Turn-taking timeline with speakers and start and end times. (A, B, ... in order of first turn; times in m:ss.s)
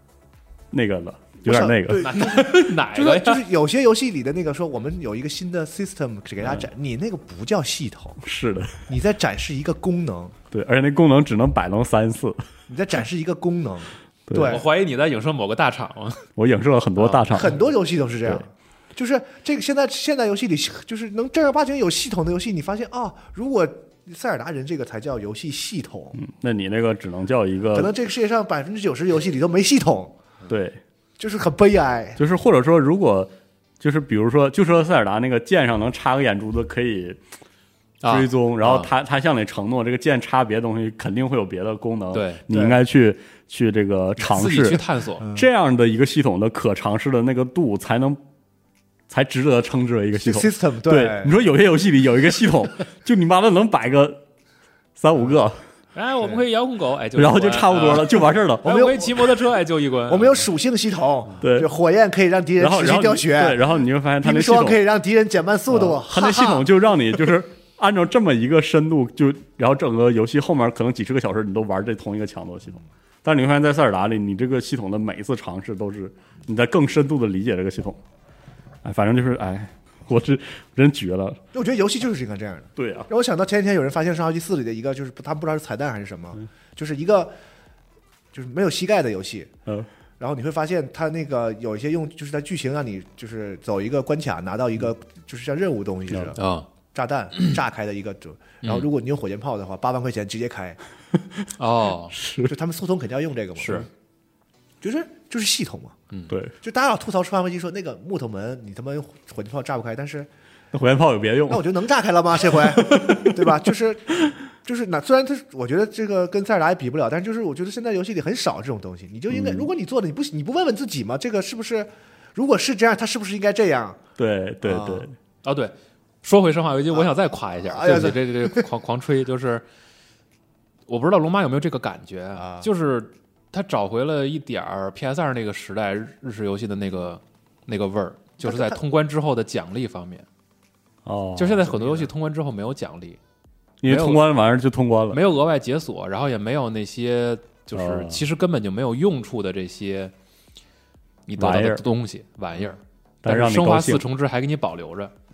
0:00.7-0:02.3 A
0:01.4-0:08.2 B
0:02.0-0:03.4 C
0:06.4-0:06.7 A
0:08.2-0:08.8 A
0:08.9-0:10.4 B
0:10.5-0:12.4 A
0:12.7-0:14.6 B
0:14.3-0:14.6 A
0:14.4-0:16.2 C
0:16.4-0:17.6 A
0:17.0-0:17.3 C
0:17.3-0:26.2 B
0:26.2-0:27.9 A
0:27.7-0:30.2 B
0:30.5-0:30.8 A
0:31.2-0:32.2 B
0:32.2-0:37.2 A
0:38.0-0:38.9 C
0:38.0-0:48.2 A
0:42.1-0:42.4 C
0:42.5-0:42.8 B
0:44.2-0:45.3 C
0:49.1-0:54.2 A
0:50.2-0:51.4 B
0:55.0-0:55.6 A
0:55.9-1:00.4 C
0:57.1-0:58.9 A
0:58.6-0:59.3 B
1:00.1-1:03.6 B
1:01.4-1:01.7 A
1:02.6-1:04.8 A
1:04.2-1:06.6 B
1:05.7-1:18.0 A
1:18.8-1:21.4 A
1:21.5-1:27.3 B
1:22.8-1:23.1 A
1:28.3-1:29.5 B
1:30.2-1:36.4 B
1:36.4-1:36.7 C
1:36.9-1:40.8 B
1:41.2-1:41.4 A
1:41.6-1:42.2 C
1:42.1-1:42.5 A
1:42.4-1:43.9 B
1:43.6-1:43.9 C
1:44.8-1:46.0 B
1:46.3-1:46.5 A
1:46.6-1:50.3 B
1:50.7-1:51.7 A
1:51.5-2:04.0 B
1:52.4-1:53.6 A
1:59.3-1:59.7 A
2:04.2-2:05.1 A
2:04.6-2:05.1 B
2:05.4-2:09.6 C
2:07.6-2:08.6 B
2:10.9-2:20.2 C
2:12.4-2:12.7 B
2:18.4-2:18.8 B
2:21.0-2:21.6 A
2:21.4-2:23.2 C
2:21.7-2:22.1 B
2:23.8-2:25.2 A
2:23.8-2:24.2 C
2:25.1-2:30.1 C
2:27.7-2:28.2 A
2:31.3-2:35.1 C
2:31.4-2:31.8 A
2:33.2-2:34.0 A